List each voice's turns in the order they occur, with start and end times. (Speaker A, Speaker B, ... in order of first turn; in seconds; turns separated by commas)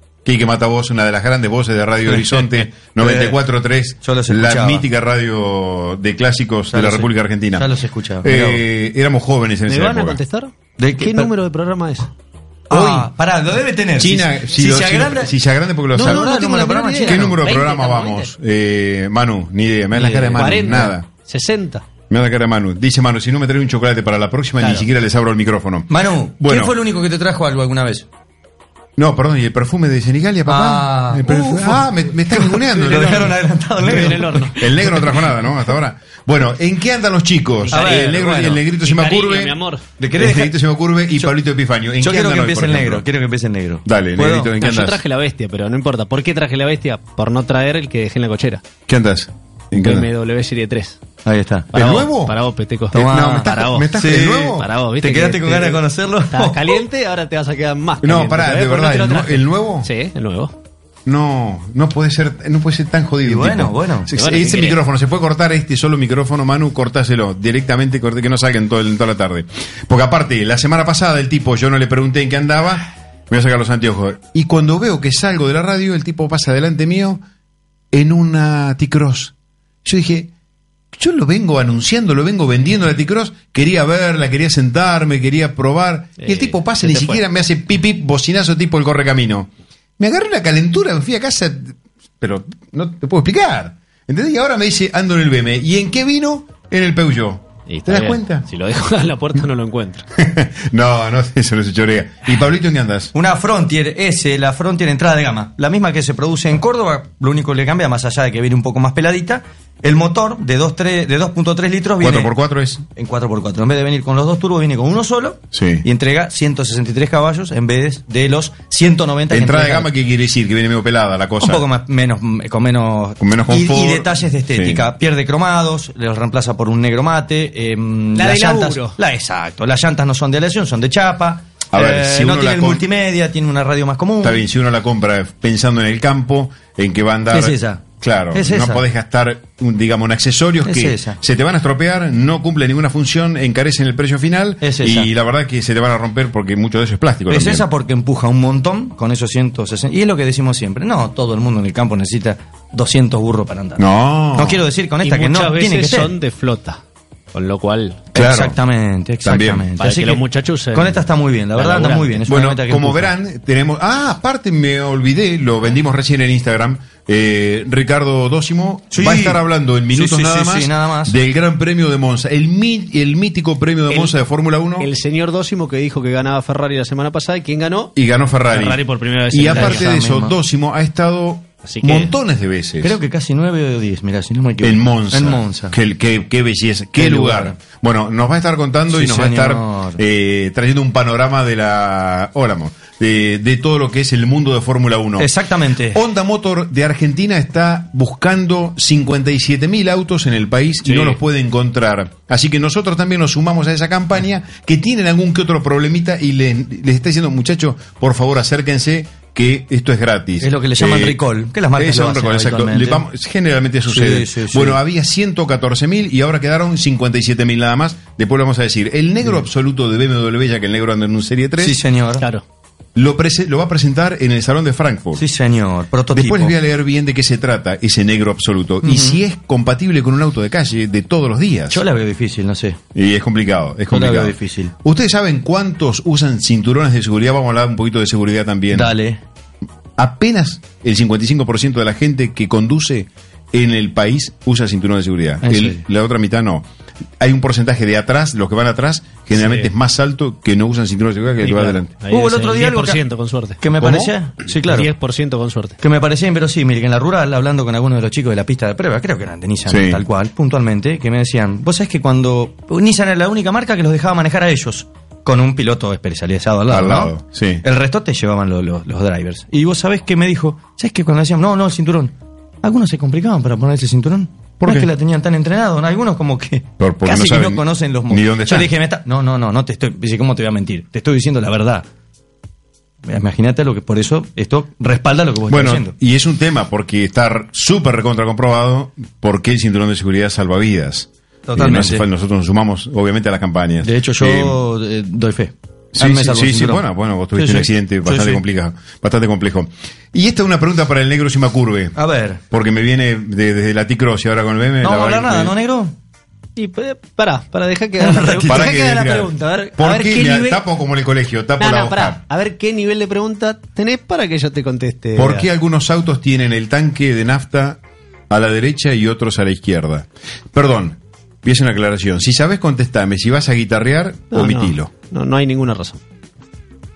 Speaker A: 0.2-7.7, Speaker B: 2.1-3.4, Speaker B: 4.0-4.8, Speaker B: 6.7-8.6, Speaker A: 8.2-10.2, Speaker C: 9.7-12.1, Speaker B: 10.8-11.3, Speaker A: 12.7-13.1, Speaker B: 12.7-15.4, Speaker A: 14.0-16.3, Speaker B: 15.9-17.4, Speaker C: 15.9-18.3, Speaker A: 17.1-21.1, Speaker B: 19.9-20.6, Speaker C: 20.4-21.8, Speaker A: 22.1-26.8, Speaker B: 24.6-24.9, Speaker B: 25.9-28.1, Speaker A: 29.0-39.6, Speaker B: 30.5-35.3, Speaker C: 33.8-34.5, Speaker C: 37.7-39.8, Speaker B: 37.7-38.6, Speaker B: 40.0-40.6, Speaker A: 40.2-43.1, Speaker B: 42.0-44.5, Speaker A: 43.9-45.0, Speaker C: 44.6-48.6, Speaker A: 48.9-50.1, Speaker C: 49.7-51.0, Speaker B: 51.2-51.9, Speaker C: 51.7-53.9, Speaker A: 51.7-52.4, Speaker B: 52.9-56.8, Speaker A: 52.9-54.7, Speaker C: 54.5-60.5, Speaker A: 58.0-59.9, Speaker A: 61.1-77.2, Speaker B: 63.2-64.2, Speaker C: 64.1-64.8, Speaker A: 77.9-80.3, Speaker A: 80.9-98.5, Speaker C: 86.2-87.2, Speaker C: 97.7-100.1, Speaker A: 100.2-103.1, Speaker B: 103.1-112.3, Speaker A: 112.0-112.8, Speaker B: 113.0-119.9, Speaker A: 115.5-115.9, Speaker A: 119.3-121.7, Speaker B: 121.4-134.5, Speaker A: 123.2-124.9, Speaker C: 128.2-129.0, Speaker A: 131.7-132.8, Speaker A: 134.2-147.7, Speaker B: 137.3-138.8, Speaker B: 140.6-141.2, Speaker B: 144.6-145.1, Speaker B: 147.3-156.1, Speaker A: 153.8-154.6, Speaker C: 155.0-156.8, Speaker C: 157.3-158.0, Speaker B: 158.1-163.1, Speaker A: 158.2-158.6, Speaker A: 159.2-159.7, Speaker C: 159.8-161.0, Speaker C: 161.6-162.2, Speaker A: 162.3-174.9, Speaker B: 168.9-171.2, Speaker C: 173.9-174.2, Speaker C: 174.8-177.9, Speaker A: 178.0-183.0, Speaker C: 178.5-179.9, Speaker B: 179.5-180.3, Speaker C: 181.7-182.1, Speaker B: 182.8-185.8, Speaker A: 184.6-195.3, Speaker B: 187.0-187.6, Speaker B: 188.9-190.0, Speaker B: 195.2-196.0, Speaker A: 195.9-211.2, Speaker C: 200.8-201.2, Speaker B: 210.4-213.1, Speaker A: 211.8-221.8, Speaker B: 213.9-214.8, Speaker B: 221.6-222.3, Speaker A: 222.9-225.3, Speaker B: 225.2-226.6, Speaker A: 226.1-231.8, Speaker B: 228.8-229.2, Speaker B: 231.7-232.8, Speaker A: 232.9-238.9, Speaker B: 233.9-234.7, Speaker B: 238.7-239.2, Speaker A: 240.0-246.7, Speaker B: 245.4-245.8, Speaker A: 247.2-251.9, Speaker C: 249.3-249.7, Speaker C: 251.5-253.6, Speaker B: 251.5-253.0, Speaker B: 253.6-254.9, Speaker A: 253.8-254.1, Speaker C: 254.7-255.8, Speaker B: 255.8-281.9, Speaker A: 259.7-260.0, Speaker A: 266.7-267.6, Speaker A: 274.6-274.9, Speaker A: 276.8-278.7, Speaker B: 283.1-285.9, Speaker A: 285.5-294.6, Speaker B: 291.5-292.1, Speaker B: 293.8-298.4, Speaker A: 295.9-302.0, Speaker B: 302.0-302.4, Speaker A: 302.5-305.5, Speaker B: 304.8-305.9, Speaker C: 306.6-310.6, Speaker B: 308.0-308.7, Speaker A: 308.5-312.2, Speaker C: 311.6-315.5, Speaker A: 315.1-324.9, Speaker C: 324.3-326.0